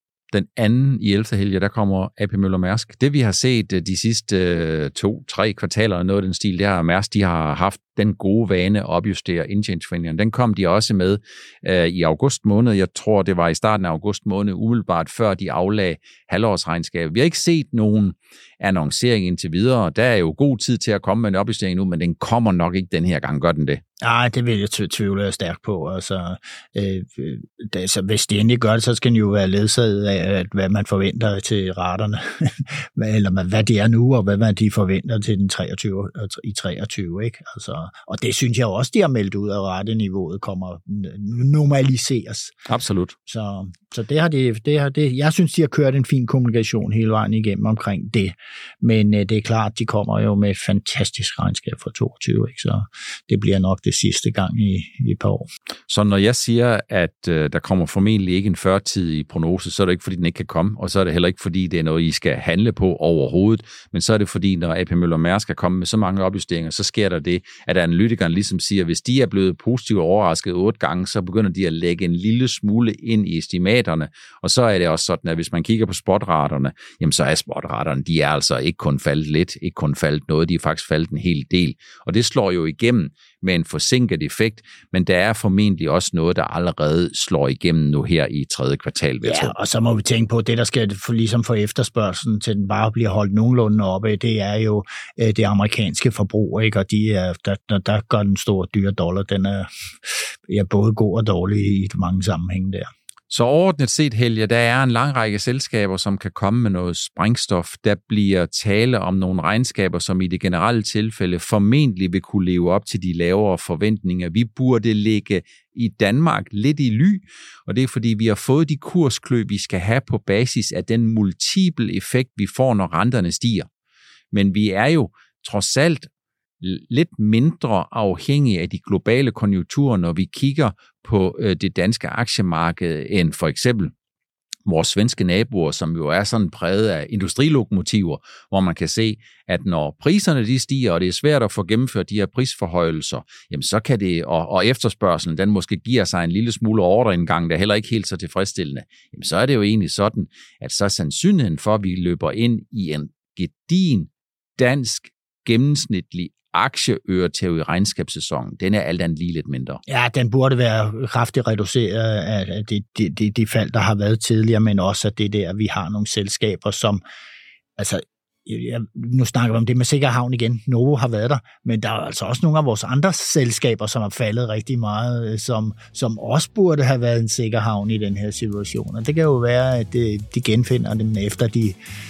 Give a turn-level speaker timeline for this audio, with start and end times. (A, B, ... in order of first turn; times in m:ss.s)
0:00.3-0:23.8 A
0:24.0-0:42.6 B
0:42.7-0:43.2 A
0:43.3-0:55.5 B
0:55.9-1:29.5 A
1:29.2-1:42.9 B
1:43.3-2:03.7 A
2:04.3-2:06.1 A
2:06.6-2:13.9 A
2:14.7-2:39.8 A
2:39.9-2:47.0 B
2:47.8-3:01.8 B